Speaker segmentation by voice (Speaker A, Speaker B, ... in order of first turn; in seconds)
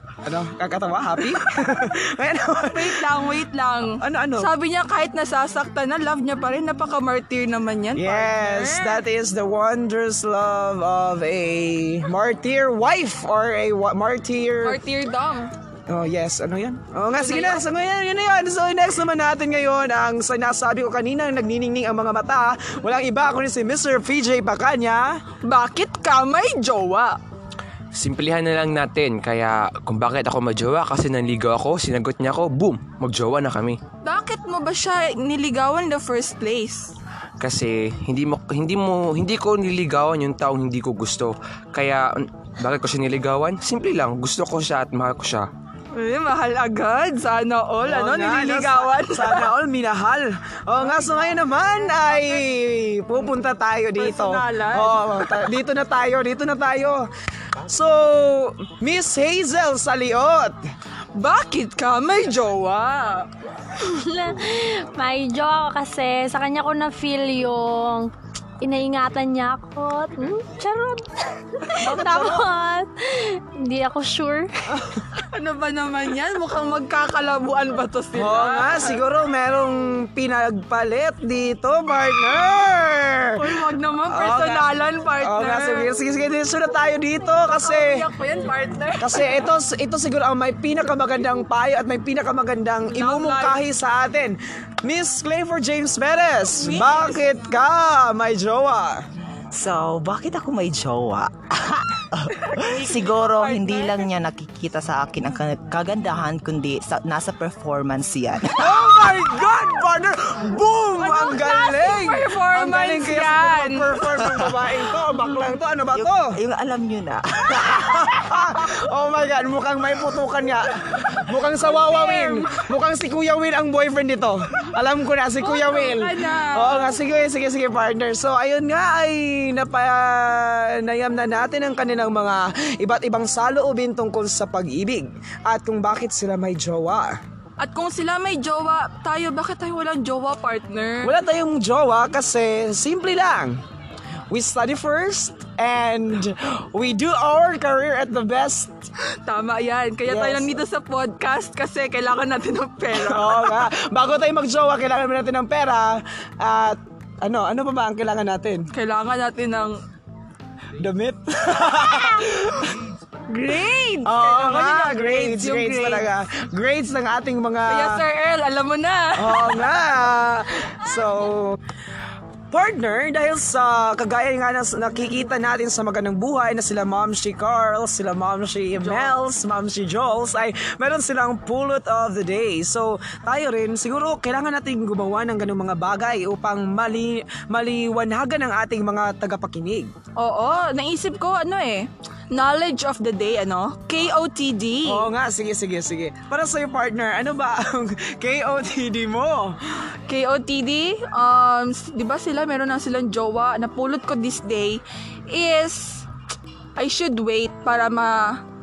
Speaker A: 0.2-3.0, 4.0-4.5, 8.0-14.8, 15.9-25.2, 47.8-57.0, 57.6-60.5, 71.8-72.5, 78.1-83.3, 84.1-84.7, 85.2-88.0, 89.0-99.0, 108.6-116.4, 117.9-137.2, 141.0-143.6, 144.3-148.8, 150.1-150.5, 152.9-158.7, 160.8-162.7, 164.0-168.0, 169.2-171.6, 172.5-189.9, 194.8-199.5
Speaker B: 2.7-9.0, 14.6-15.5, 17.1-17.6, 25.4-27.2, 34.0-36.9, 45.9-49.5, 50.8-52.4, 54.0-55.5, 61.1-63.3, 75.3-79.0, 83.3-85.9, 87.5-89.4, 92.9-93.6, 96.6-97.2, 102.5-104.0, 111.0-114.3, 121.6-122.6, 125.4-127.0, 137.6-141.1, 149.2-153.7, 158.7-159.8, 163.3-166.1, 167.7-169.7, 178.7-179.2, 190.2-195.1, 200.1-206.1, 206.8-208.4
Speaker C: 27.9-33.8, 37.4-45.5
Speaker D: 63.8-68.1, 68.6-74.5
Speaker E: 99.5-108.8, 115.9-118.2